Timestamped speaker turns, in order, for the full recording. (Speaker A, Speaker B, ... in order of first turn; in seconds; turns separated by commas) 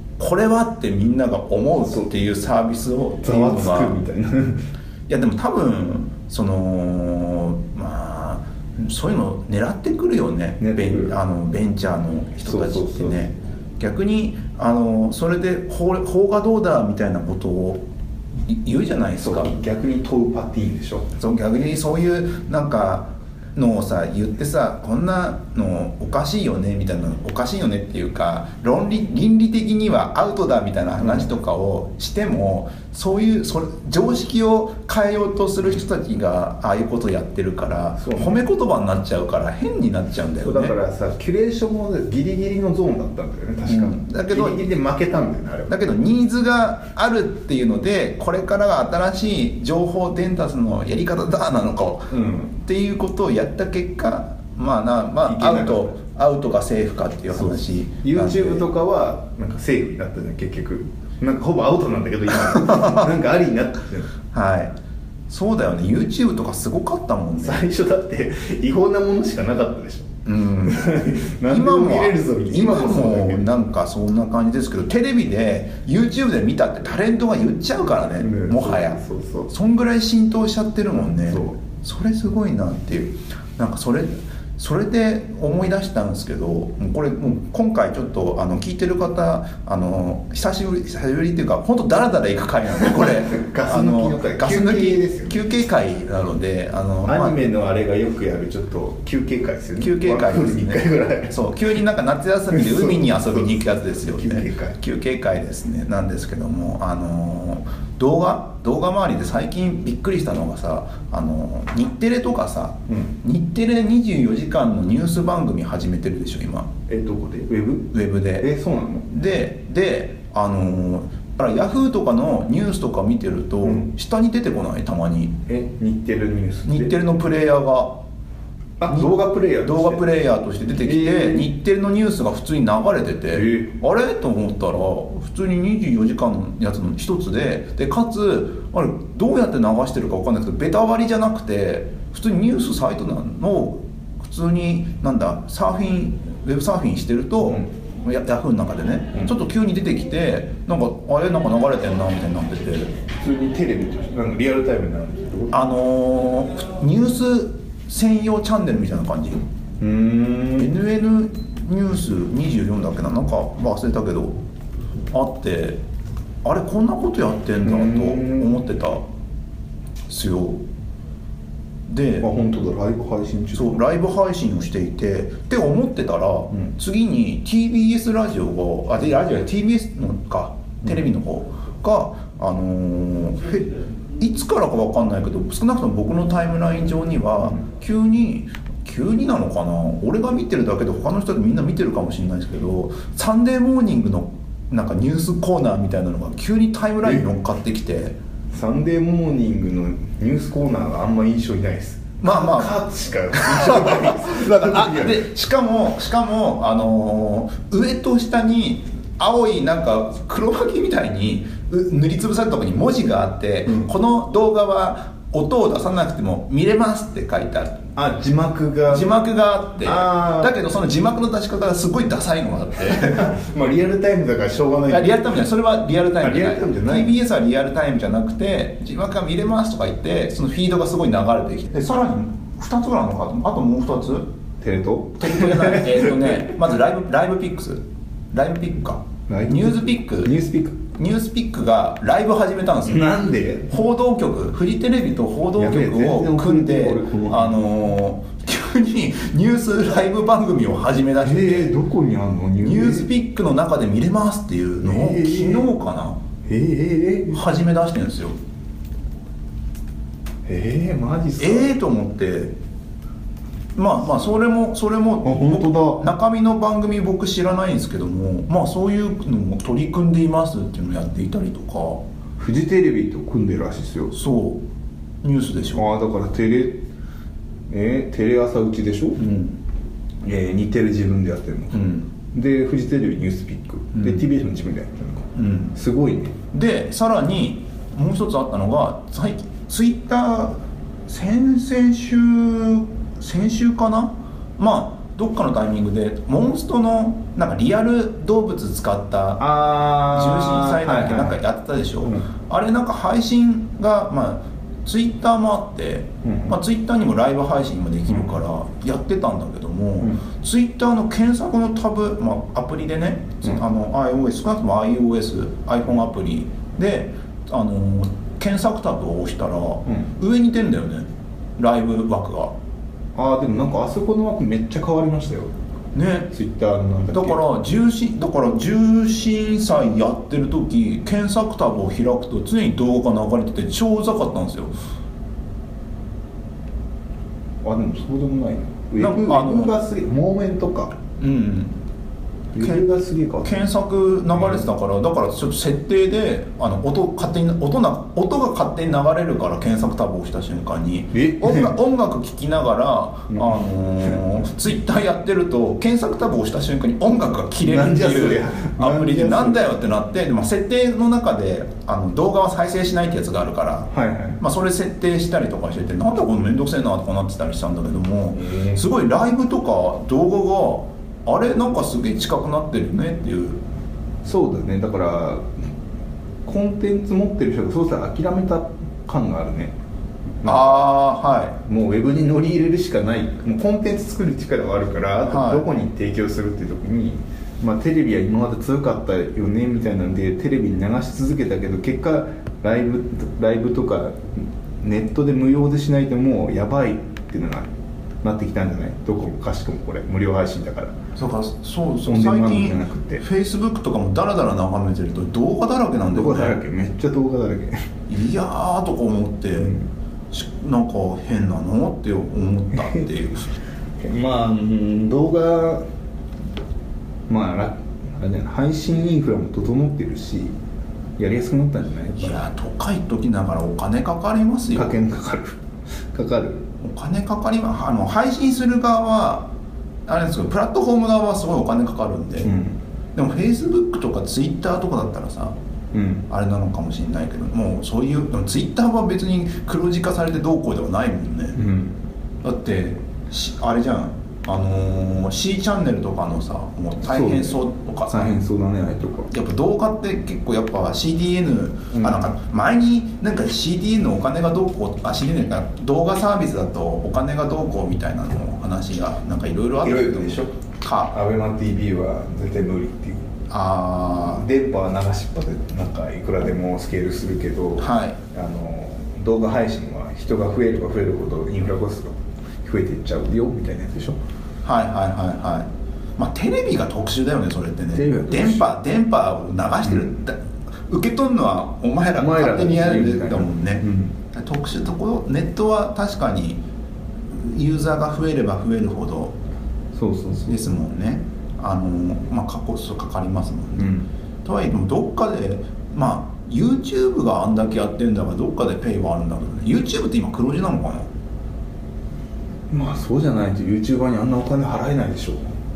Speaker A: 0.2-4.0, Speaker B: 3.2-4.6, Speaker A: 5.1-17.9, Speaker B: 10.6-11.2, Speaker B: 12.4-13.3, Speaker A: 18.4-19.5, Speaker B: 19.2-21.1, Speaker A: 21.2-40.8, Speaker B: 31.0-31.3, Speaker B: 38.0-38.4, Speaker B: 40.4-45.8, Speaker A: 43.7-44.7, Speaker A: 45.7-58.7, Speaker B: 52.1-52.5, Speaker B: 55.2-56.0, Speaker B: 57.3-64.1, Speaker A: 62.5-63.0, Speaker A: 64.3-64.8, Speaker A: 65.3-67.6, Speaker B: 67.4-73.5, Speaker A: 70.3-79.0, Speaker B: 78.0-79.5, Speaker A: 79.5-97.4, Speaker B: 81.2-81.6, Speaker B: 92.8-95.4, Speaker B: 97.0-101.4, Speaker A: 99.8-116.7, Speaker B: 102.5-104.8, Speaker B: 112.9-113.1, Speaker B: 116.9-119.1, Speaker A: 117.9-118.5, Speaker A: 119.1-125.4, Speaker B: 123.6-123.9, Speaker B: 125.5-127.0, Speaker A: 126.7-128.0, Speaker B: 128.8-130.1, Speaker A: 128.9-152.9, Speaker B: 130.8-131.5, Speaker B: 133.3-133.7, Speaker B: 147.4-147.7, Speaker B: 153.2-155.6, Speaker A: 155.5-159.4, Speaker B: 159.8-160.7, Speaker A: 160.6-164.4, Speaker A: 165.1-165.8, Speaker A: 166.4-169.0, Speaker B: 167.6-168.6, Speaker A: 170.1-170.6, Speaker A: 171.9-172.3, Speaker B: 172.2-173.7, Speaker A: 173.5-198.2, Speaker B: 198.5-205.2, Speaker A: 202.2-217.9, Speaker B: 218.0-219.1, Speaker A: 218.9-223.3, Speaker B: 219.8-220.6, Speaker B: 223.1-225.2, Speaker A: 224.9-234.3, Speaker B: 226.2-227.2, Speaker B: 234.6-236.5, Speaker A: 235.2-240.3, Speaker B: 239.3-240.8, Speaker A: 240.9-243.2, Speaker B: 242.8-243.7, Speaker A: 243.7-251.8, Speaker B: 245.6-247.6, Speaker B: 251.2-253.1, Speaker A: 252.6-256.2, Speaker B: 254.8-255.7, Speaker B: 256.5-257.4, Speaker A: 257.3-258.4, Speaker B: 260.5-261.7, Speaker A: 261.4-262.5, Speaker A: 263.8-272.0, Speaker B: 265.2-266.1, Speaker B: 272.4-274.2, Speaker A: 274.1-274.6, Speaker A: 275.2-275.9, Speaker B: 275.8-276.8, Speaker B: 277.7-279.2, Speaker A: 279.2-279.6, Speaker B: 280.2-286.4, Speaker A: 281.7-282.1, Speaker A: 284.0-284.2, Speaker A: 285.4-285.7, Speaker A: 286.5-299.4, Speaker B: 299.4-301.4, Speaker A: 300.1-322.6, Speaker B: 302.0-302.3, Speaker B: 306.2-306.6, Speaker B: 323.1-325.5, Speaker A: 325.9-326.3, Speaker B: 326.3-327.4, Speaker A: 327.1-334.8, Speaker B: 337.6-340.9, Speaker A: 339.0-339.7, Speaker A: 341.2-341.8, Speaker B: 342.5-343.7, Speaker A: 342.6-342.9, Speaker A: 343.4-373.6, Speaker B: 351.1-351.7, Speaker B: 357.6-359.7, Speaker B: 363.9-364.4, Speaker B: 368.4-368.8, Speaker B: 374.2-375.5, Speaker B: 376.5-379.7, Speaker B: 380.4-380.7, Speaker A: 380.4-381.6, Speaker B: 381.6-397.7, Speaker A: 385.3-385.7, Speaker B: 398.2-401.0, Speaker A: 401.1-406.6, Speaker B: 402.1-403.2, Speaker B: 406.1-407.9, Speaker A: 408.1-409.8, Speaker B: 409.6-409.9, Speaker A: 410.3-413.5, Speaker B: 414.0-415.9, Speaker B: 417.3-420.5, Speaker B: 421.2-422.5, Speaker A: 422.2-425.0, Speaker B: 424.7-425.6, Speaker B: 426.1-426.7, Speaker A: 426.8-429.5, Speaker A: 430.1-432.5, Speaker B: 432.4-432.8, Speaker A: 433.1-435.6, Speaker B: 435.9-436.2, Speaker A: 436.3-441.6, Speaker B: 441.6-442.0, Speaker A: 442.4-448.4, Speaker B: 447.0-449.3, Speaker A: 449.3-461.1, Speaker B: 451.9-452.3, Speaker B: 459.8-460.6, Speaker B: 461.1-463.3, Speaker A: 463.5-464.4, Speaker B: 464.2-474.2, Speaker A: 467.8-468.2, Speaker A: 474.6-486.6, Speaker B: 477.9-478.7, Speaker B: 482.2-484.1, Speaker A: 487.3-489.4, Speaker B: 489.9-490.6, Speaker A: 490.5-501.1, Speaker B: 493.8-494.1, Speaker B: 502.7-505.5